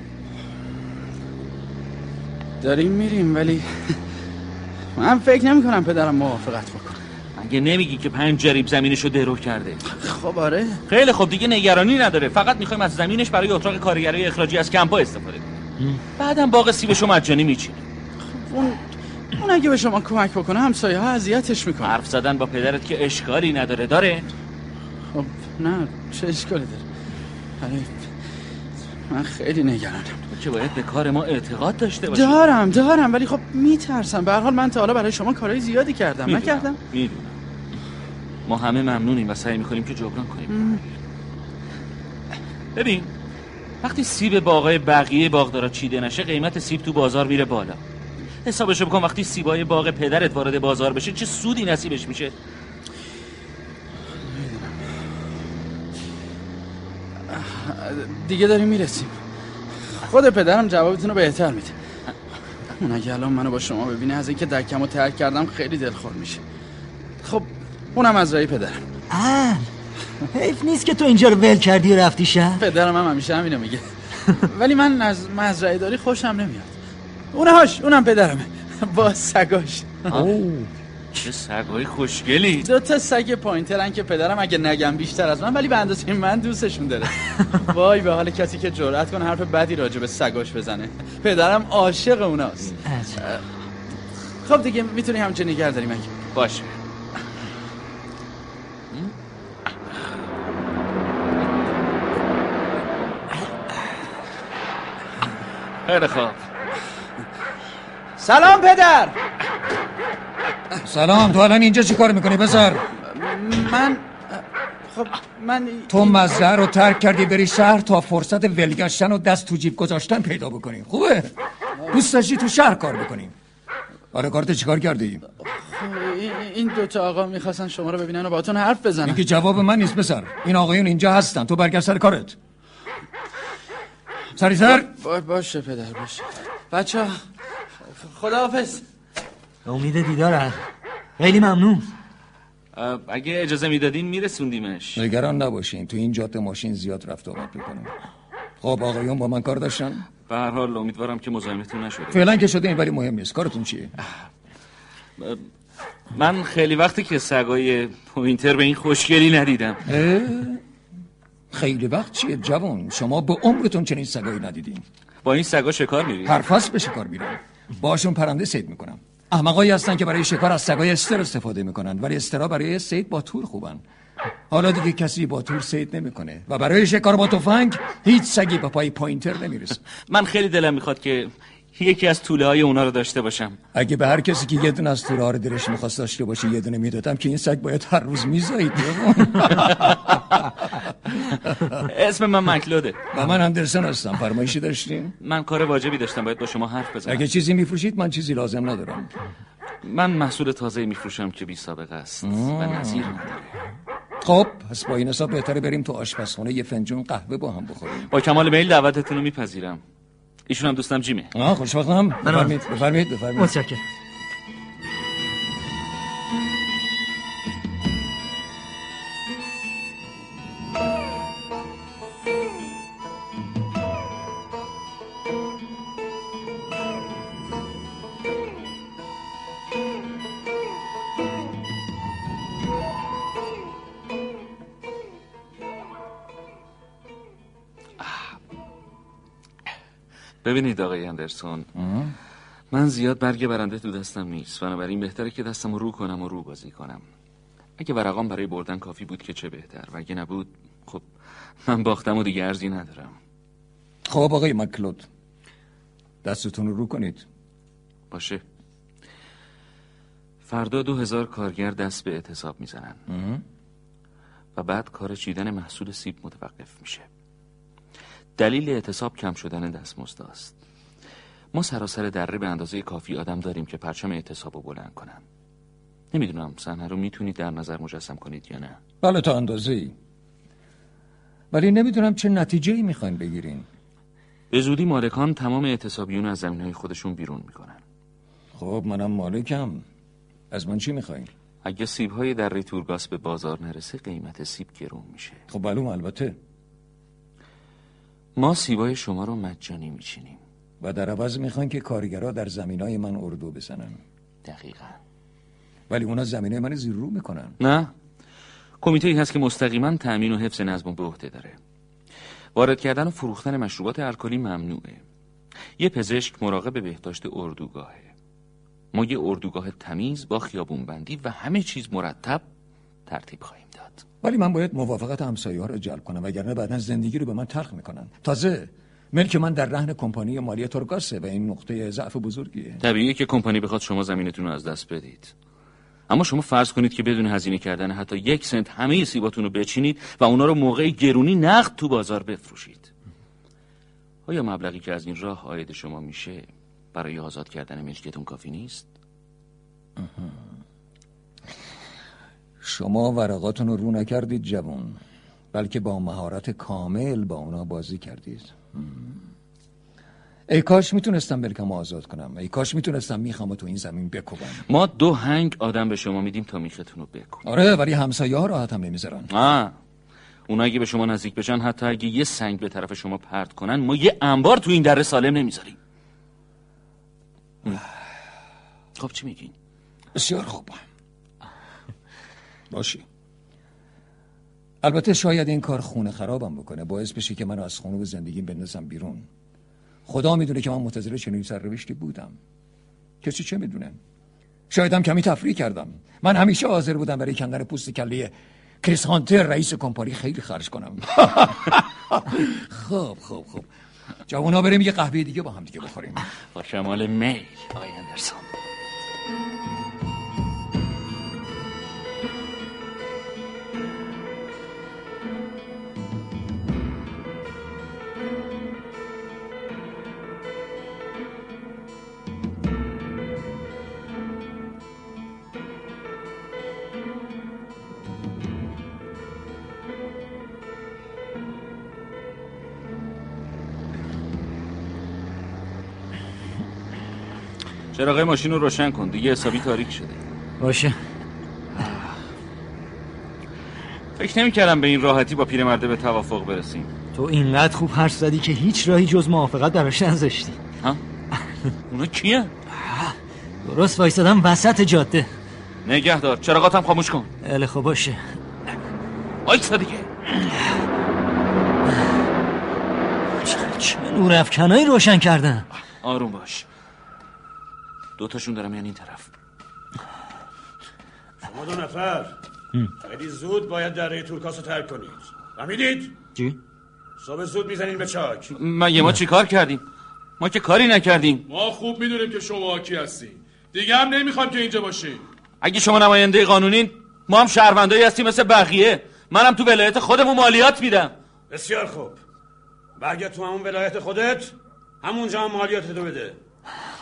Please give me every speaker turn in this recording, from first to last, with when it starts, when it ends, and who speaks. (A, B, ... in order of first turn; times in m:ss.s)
0:02.6-0:04.0 A
0:05.0-0:07.0 A
0:07.4-0:09.8 B
0:09.9-0:10.8 A
0:10.9-0:15.6 B
0:16.2-0:17.8 B
0:18.3-0:18.8 A
0:19.4-0:22.0 A
0:21.8-0:24.3 B
0:25.1-0:26.8 A
0:27.6-0:27.9 A
0:29.1-0:30.2 A
0:30.3-0:32.4 B
0:32.1-0:36.8 A
0:36.2-0:37.4 B
0:38.5-0:40.8 B
0:40.5-0:40.8 A
0:42.8-0:43.1 B
0:43.8-0:47.8 B
0:48.4-0:52.4 B
0:54.2-0:54.8 A
0:57.3-0:59.2 A
1:00.0-1:01.8 A
1:02.8-1:06.4 A
1:07.2-1:08.8 A
1:09.1-1:09.7 C
1:10.3-1:12.6 C
1:12.6-1:13.9 A
1:14.4-1:16.7 A
1:17.3-1:20.1 A
1:21.2-1:22.7 B
1:22.6-1:33.4 A
1:32.8-1:33.2 C
1:34.4-1:36.1 A
1:36.3-1:36.8 B
1:45.9-1:46.4 B
1:48.2-1:49.2 A
1:50.8-1:52.9 D
1:53.0-1:56.3 A
1:55.9-2:01.3 D
2:01.9-2:03.3 D
2:04.1-2:05.2 D
2:05.6-2:09.2 A
2:09.0-2:12.4 D
2:14.4-2:14.9 D
2:14.6-2:17.1 A
2:17.8-2:18.8 A
2:19.6-2:20.6 C
2:21.2-2:21.9 C
2:22.7-2:25.0 B
2:25.0-2:27.9 D
2:28.6-2:30.1 D
2:30.3-2:32.3 B
2:32.1-2:33.9 D
2:36.1-2:39.9 B
2:39.9-2:40.6 D
2:41.5-2:44.8 D
2:45.2-2:46.4 B
2:46.2-2:53.8 D
2:54.5-2:59.8 D
3:00.1-3:03.6 B
3:03.7-3:10.1 D
3:09.7-3:10.4 B
3:11.1-3:13.1 B
3:13.1-3:15.1 D
3:15.2-3:17.2 B
3:17.1-3:19.1 D
3:19.8-3:23.5 B
3:22.2-3:23.2 D
3:24.2-3:28.1 D
3:28.1-3:29.8 B
3:30.5-3:31.3 B
3:31.3-3:33.6 D
3:33.4-3:33.8 C
3:58.0-3:58.3 B
4:00.4-4:01.7 B
4:01.8-4:02.1 D
4:02.7-4:07.0 B
4:07.8-4:11.0 B
4:11.7-4:13.2 B
4:14.1-4:15.1 D
4:16.2-4:17.2 D
4:18.1-4:18.4 B
4:20.4-4:23.0 B
4:23.1-4:23.4 D
4:24.6-4:27.1 B
4:28.4-4:30.6 B
4:31.5-4:35.2 B
4:36.1-4:38.8 B
4:39.0-4:39.9 D
4:41.5-4:43.6 D
4:44.5-4:47.8 B
4:48.6-4:49.8 D
4:50.5-4:51.3 D
4:51.6-4:55.4 B
4:55.5-4:56.4 D
4:58.4-5:00.4 B
5:00.8-5:04.0 D
5:04.4-5:05.0 B
5:05.9-5:07.6 D
5:07.6-5:07.9 B
5:08.8-5:11.6 B
5:12.6-5:15.0 B
5:15.8-5:18.1 B
5:18.9-5:22.4 B
5:23.1-5:24.0 B
5:24.2-5:32.8 D
5:32.8-5:35.3 B
5:36.1-5:42.9 B
5:44.3-5:48.9 B
5:50.0-5:50.4 D
5:52.6-5:55.0 D
5:55.5-5:59.1 D
6:00.5-6:04.6 D
6:04.7-6:07.4 B
6:07.5-6:09.3 D
6:09.3-6:09.7 B
6:10.5-6:15.8 B
6:19.0-6:19.5 B
6:20.2-6:20.8 D
6:22.7-6:23.0 D
6:24.8-6:29.3 D
6:30.1-6:32.4 D
6:33.2-6:34.0 D
6:34.7-6:43.7 D
6:44.3-6:46.3 D
6:46.5-6:48.5 B
7:17.9-7:20.2 B
7:20.6-7:21.0 C
7:21.7-7:22.2 B
7:24.2-7:26.9 B
7:27.1-7:30.6 C
7:31.9-7:32.5 B
7:32.8-7:35.3 C
7:35.8-7:37.3 B
7:37.4-7:38.2 C
7:39.4-7:40.1 B
7:43.4-7:45.6 C
7:46.0-7:46.7 B
7:48.2-7:49.3 B
7:51.4-7:52.4 E
7:53.0-7:56.1 E
7:57.2-7:58.5 E
7:58.5-7:59.8 B
8:00.4-8:01.4 B
8:01.5-8:05.2 F
8:05.6-8:11.1 B
8:11.5-8:12.2 E
8:13.0-8:16.4 E